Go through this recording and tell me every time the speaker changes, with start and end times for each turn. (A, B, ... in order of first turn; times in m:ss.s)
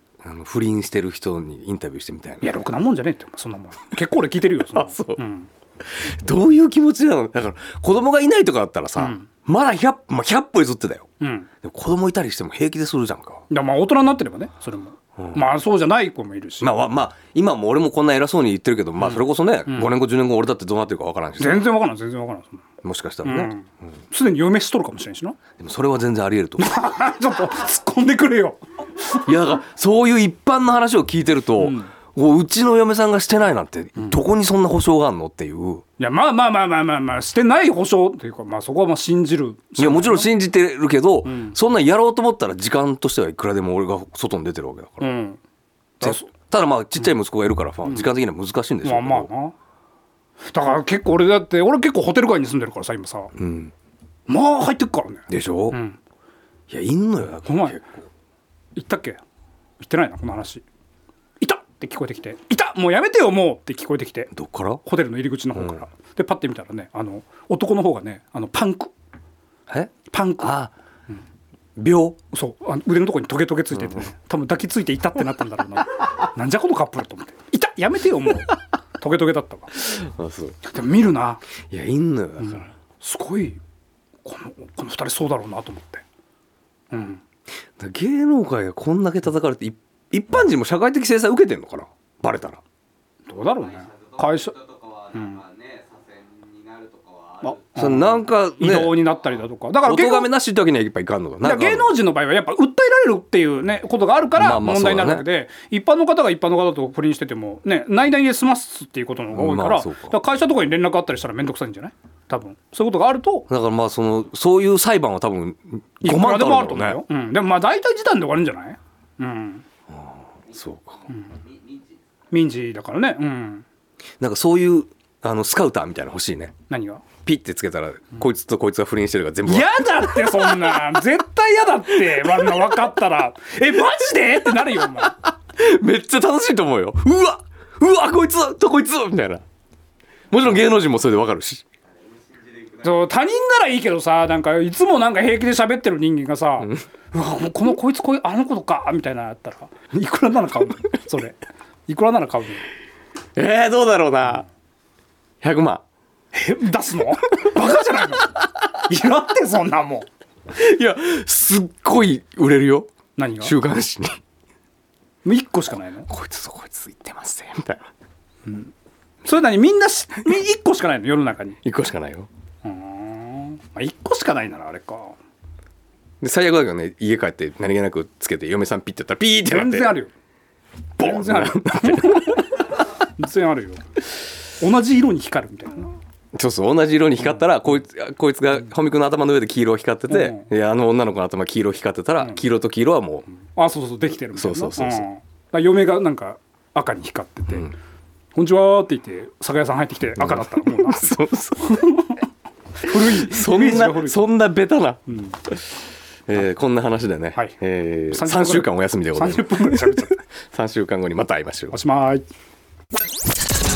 0:00.2-0:02.6 A
0:02.4-0:05.5 B
0:04.7-0:05.2 A
0:05.8-0:11.0 A
0:09.0-0:09.3 B
0:11.2-0:11.5 B
0:11.6-0:13.4 A
0:13.5-0:16.8 B
0:15.2-0:15.4 A
0:16.6-0:21.7 A
0:19.0-0:19.9 B
0:21.4-0:22.7 B
0:22.8-0:23.5 A
0:23.2-0:25.4 B
0:25.6-0:26.7 A
0:26.6-0:29.3 B
0:29.1-0:35.8 A
0:31.6-0:31.9 B
0:36.0-0:40.3 B
0:39.8-0:45.1 A
0:41.2-0:41.6 B
0:45.0-0:45.4 B
0:46.0-0:46.3 B
0:46.0-0:49.3 A
0:47.8-0:48.1 B
0:48.8-0:49.5 B
0:50.5-0:53.3 B
0:53.3-0:53.7 A
0:54.3-0:56.0 B
0:55.3-0:55.8 A
0:56.7-0:58.0 A
0:57.4-0:57.8 B
0:58.7-0:59.2 B
0:59.8-1:00.6 B
1:01.4-1:04.3 B
1:04.3-1:04.8 A
1:04.8-1:08.9 B
1:09.7-1:10.7 A
1:10.1-1:10.6 B
1:11.8-1:12.2 A
1:12.3-1:19.7 B
1:19.8-1:20.6 A
1:20.6-1:21.4 B
1:21.7-1:22.7 A
1:22.4-1:23.6 B
1:24.2-1:26.0 B
1:26.9-1:27.2 B
1:27.8-1:32.6 A
1:33.3-1:34.6 B
1:33.5-1:38.1 C
1:35.1-1:35.4 B
1:37.4-1:40.3 B
1:37.8-1:39.0 A
1:39.8-1:41.9 A
1:41.4-1:53.5 B
1:44.4-1:45.2 A
1:49.3-1:50.2 A
1:53.5-1:57.0 A
1:56.0-1:59.6 B
1:59.9-2:01.0 A
2:01.1-2:02.0 C
2:02.3-2:03.6 B
2:04.2-2:06.5 A
2:06.7-2:07.0 B
2:07.2-2:10.8 A
2:09.4-2:15.2 B
2:12.1-2:12.7 A
2:15.0-2:19.4 A
2:20.3-2:21.6 A
2:22.0-2:23.0 C
2:22.8-2:32.7 B
2:33.4-2:34.5 A
2:35.4-2:35.8 A
2:36.3-2:40.1 B
2:40.5-2:42.9 A
2:43.2-2:43.5 B
2:43.4-2:44.2 A
2:45.2-2:46.1 B
2:46.1-2:47.9 A
2:48.4-2:48.7 B
2:49.2-2:51.6 B
2:51.6-2:52.3 A
2:52.6-2:55.2 B
2:56.2-2:59.9 A
2:59.5-3:00.1 B
3:01.0-3:02.4 A
3:01.0-3:03.8 B
3:04.6-3:05.9 B
3:06.3-3:13.2 A
3:10.1-3:10.5 B
3:13.5-3:17.7 B
3:14.3-3:15.0 A
3:17.5-3:17.7 A
3:18.3-3:22.2 B
3:20.2-3:22.0 A
3:22.8-3:24.2 B
3:22.9-3:25.8 A
3:25.1-3:25.4 B
3:26.3-3:31.8 A
3:28.1-3:30.2 B
3:31.7-3:32.2 B